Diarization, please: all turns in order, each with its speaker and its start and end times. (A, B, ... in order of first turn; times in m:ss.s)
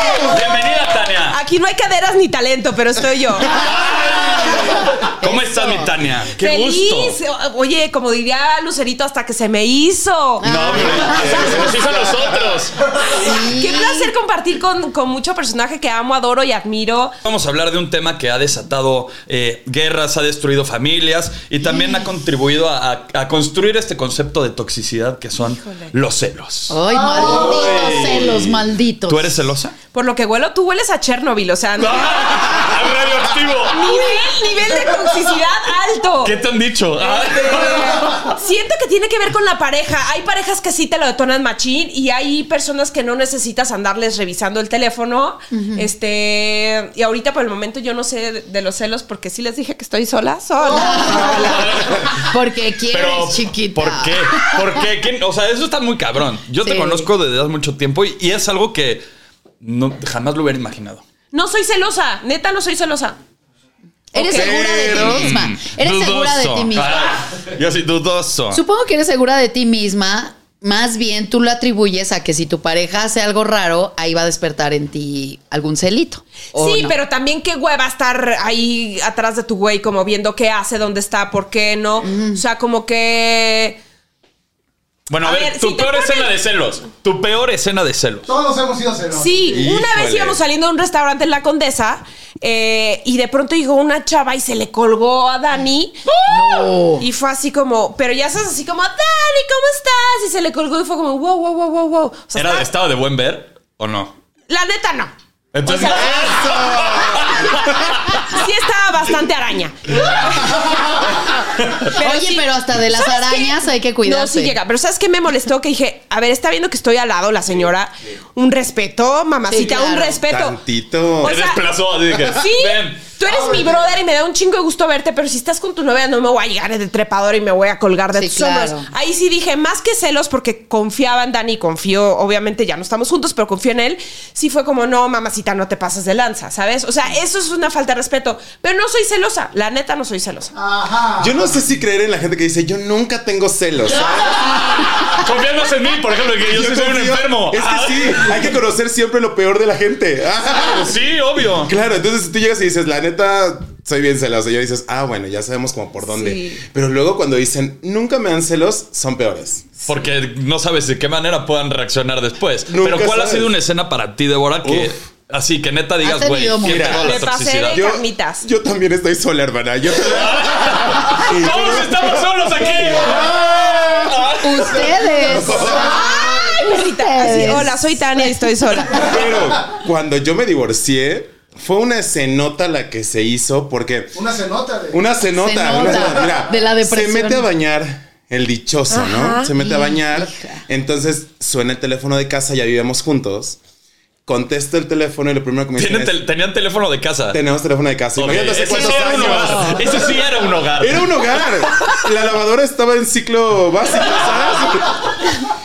0:00.2-0:01.4 A
0:01.3-0:03.7 B
0:03.5-0:07.2 A
0:05.2-0:05.9 C
0:06.4-0:12.1 B
0:10.4-0:11.4 C
0:10.4-0:12.7 A
0:11.0-0:12.2 D
0:13.0-0:17.1 B
0:13.2-0:14.1 C
0:17.2-0:28.4 A
0:25.4-0:25.9 B
0:26.7-0:29.4 C
0:26.9-0:27.6 E
0:27.5-0:28.5 D
0:29.1-0:29.8 A
0:29.9-0:32.5 B
0:31.8-0:34.0 A
0:33.6-0:36.4 B
0:36.2-0:38.3 A
0:37.0-0:52.1 B
0:45.5-0:45.9 C
0:50.7-0:54.8 C
0:51.2-0:52.1 A
0:52.9-0:59.0 A
0:56.6-0:57.1 C
0:59.6-1:01.0 A
1:01.3-1:03.2 B
1:04.1-1:04.6 B
1:04.1-1:07.1 C
1:04.3-1:05.3 D
1:04.9-1:08.6 A
1:08.5-1:17.0 C
1:16.5-1:23.8 B
1:22.0-1:22.4 C
1:25.1-1:28.3 A
1:25.2-1:26.3 B
1:28.3-1:29.6 E
1:29.1-1:42.7 B
1:29.5-1:30.4 D
1:36.3-1:37.0 C
1:42.3-1:44.1 A
1:44.5-1:46.6 B
1:45.5-1:48.1 A
1:45.8-1:47.4 D
1:48.1-1:51.4 B
1:51.6-1:51.9 A
1:51.9-2:00.6 B
1:52.0-1:54.6 C
1:59.5-2:00.2 C
2:00.3-2:01.4 D
2:01.2-2:01.6 B
2:01.2-2:03.0 A
2:02.2-2:20.5 B
2:03.2-2:03.9 E
2:08.1-2:08.9 C
2:20.6-2:21.6 E
2:21.2-2:24.6 D
2:24.6-2:28.3 A
2:26.5-2:30.9 D
2:30.5-2:31.7 A
2:31.6-2:39.7 D
2:36.0-2:36.6 B
2:39.8-2:47.8 A
2:42.7-2:43.5 D
2:44.6-2:44.9 D
2:46.0-2:47.0 C
2:46.6-2:54.2 D
2:46.9-2:48.5 B
2:50.0-2:55.0 A
2:54.4-2:58.5 C
2:54.7-2:56.4 E
2:55.2-2:55.9 D
2:55.7-2:59.1 B
2:58.9-3:04.2 D
2:59.2-2:59.6 E
3:04.1-3:05.0 E
3:04.9-3:13.6 D
3:05.4-3:07.5 C
3:08.9-3:09.5 B
3:09.5-3:10.6 C
3:14.2-3:16.2 D
3:15.8-3:17.4 A
3:17.3-3:20.0 D
3:18.2-3:21.2 A
3:20.8-3:25.1 D